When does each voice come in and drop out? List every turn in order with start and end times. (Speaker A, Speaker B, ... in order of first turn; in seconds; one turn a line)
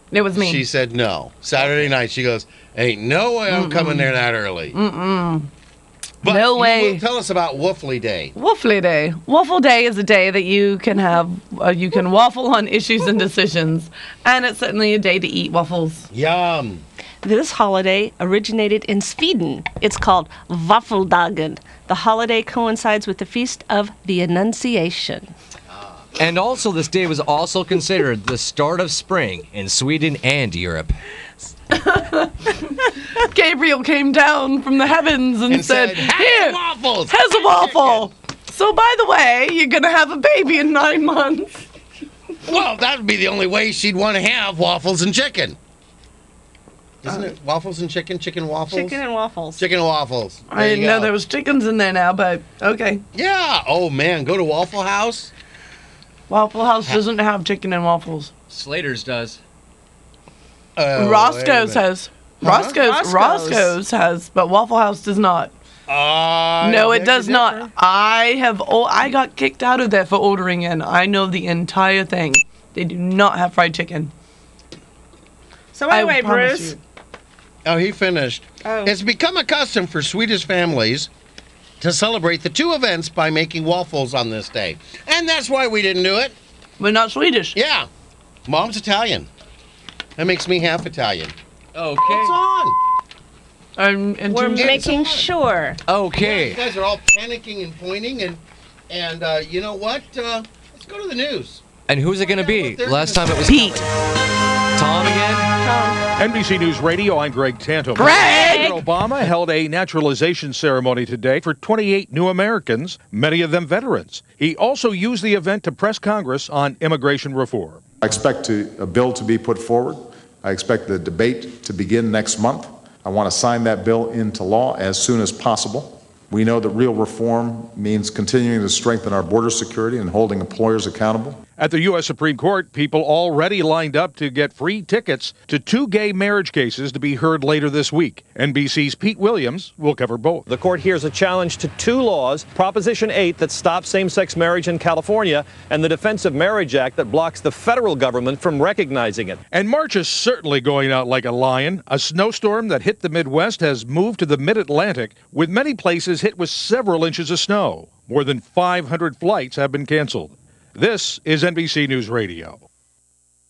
Speaker A: 0.1-0.7
Speaker B: 0.3-4.8
Speaker A: 3.5-4.2
Speaker A: 4.7-5.5
Speaker B: 6.2-8.3
Speaker A: 6.2-7.0
Speaker A: 8.3-16.1
Speaker B: 16.1-16.8
Speaker C: 17.2-25.3
Speaker B: 25.7-26.0
Speaker D: 26.2-30.9
Speaker A: 31.7-32.6
Speaker A: 33.1-41.6
Speaker B: 35.5-38.1
Speaker B: 42.4-45.6
Speaker B: 47.0-49.0
Speaker C: 48.7-49.6
Speaker B: 49.6-51.1
Speaker A: 50.5-53.0
Speaker B: 53.1-55.3
Speaker A: 56.3-58.3
Speaker D: 58.5-59.4
Speaker B: 60.8-61.8
Speaker A: 60.9-65.5
Speaker B: 62.4-62.8
Speaker C: 62.7-63.7
Speaker B: 65.9-67.7
Speaker A: 66.6-74.1
Speaker C: 75.7-76.8
Speaker A: 75.9-76.8
Speaker B: 77.6-81.1
Speaker C: 78.6-78.9
Speaker B: 81.8-86.3
Speaker A: 86.8-87.5
Speaker B: 87.5-87.9
Speaker B: 88.5-89.3
Speaker B: 90.2-91.3
Speaker D: 91.7-92.3
Speaker B: 92.0-92.8
Speaker A: 93.8-94.9
Speaker C: 94.3-95.8
Speaker B: 94.5-95.3
Speaker D: 95.9-96.6
Speaker B: 96.2-101.6
Speaker D: 101.9-103.9
Speaker B: 102.2-103.8
Speaker A: 103.4-103.8
Speaker D: 104.8-105.5
Speaker C: 105.6-106.0
Speaker E: 106.2-117.8
Speaker A: 108.0-108.8
Speaker C: 108.2-108.8
Speaker F: 118.0-131.4
Speaker E: 131.5-140.5
Speaker G: 140.5-149.4
Speaker E: 149.5-162.6